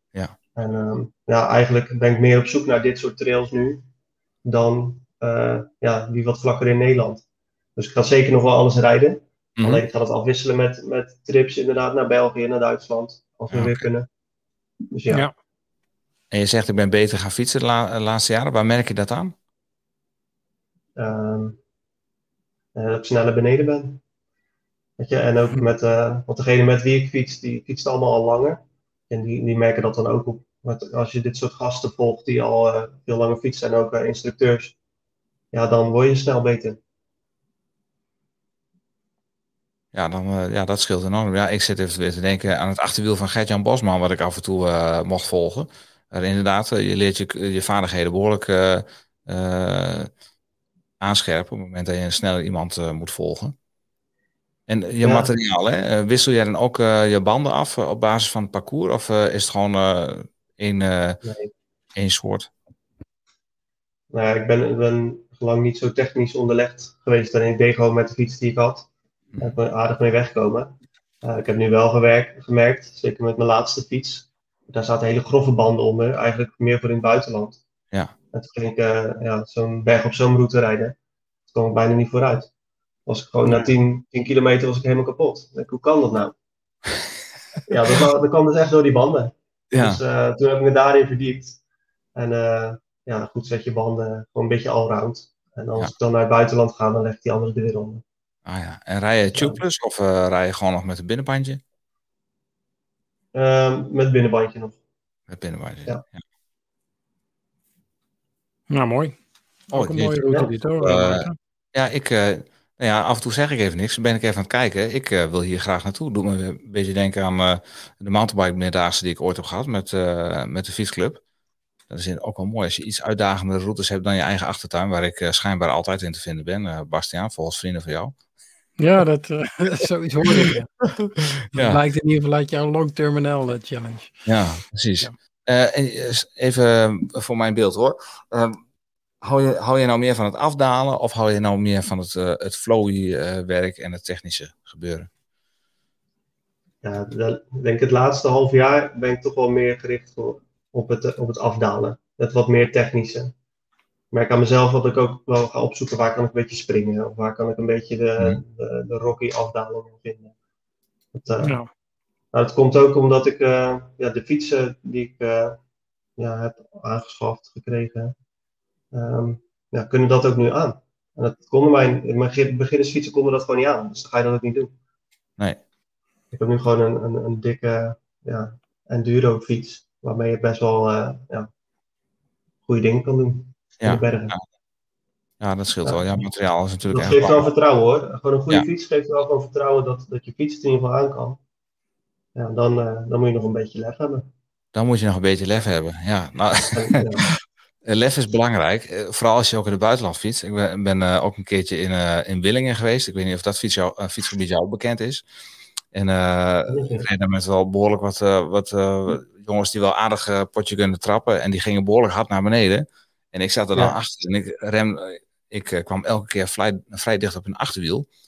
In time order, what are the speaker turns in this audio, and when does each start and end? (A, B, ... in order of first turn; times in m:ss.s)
0:00.6-0:03.9 A
0:04.4-0:07.2 A
0:07.8-0:14.1 A
0:09.6-0:09.8 B
0:13.5-0:13.9 B
0:14.9-0:15.2 A
0:16.3-0:19.3 B
0:21.0-0:21.6 A
0:22.7-0:24.0 A
0:25.0-0:34.7 A
0:35.5-0:36.8 A
0:39.9-0:50.1 B
0:51.0-0:53.5 B
0:54.7-1:01.2 B
0:55.0-0:55.3 A
1:01.2-1:01.5 A
1:02.0-1:02.5 B
1:04.1-1:08.9 A
1:09.4-1:17.6 A
1:18.3-1:21.0 A
1:21.5-1:22.5 A
1:23.0-1:26.3 A
1:27.7-1:31.6 A
1:29.7-1:30.0 B
1:32.1-1:38.0 A
1:38.4-1:41.6 B
1:39.3-1:39.6 A
1:43.3-1:44.8 A
1:45.3-1:46.2 B
1:48.7-1:49.1 C
1:49.7-1:51.4 C
1:49.7-2:01.2 B
2:01.9-2:08.1 B
2:08.8-2:10.7 C
2:11.5-2:14.1 C
2:11.5-2:11.8 B
2:14.2-2:18.6 B
2:19.2-2:25.1 B
2:26.8-2:33.3 A
2:34.1-2:40.3 A
2:41.1-2:41.6 A
2:41.4-2:41.7 C
2:42.3-2:45.6 A
2:46.2-2:48.1 A
2:48.9-2:54.7 A
2:56.3-3:01.5 A
3:02.6-3:04.3 A
3:03.8-3:04.4 B
3:05.4-3:07.5 B
3:06.9-3:11.4 A
3:12.4-3:14.3 A
3:14.7-3:17.3 B
3:16.7-3:17.3 A
3:17.8-3:25.2 B
3:25.9-3:38.1 B
3:26.7-3:27.1 A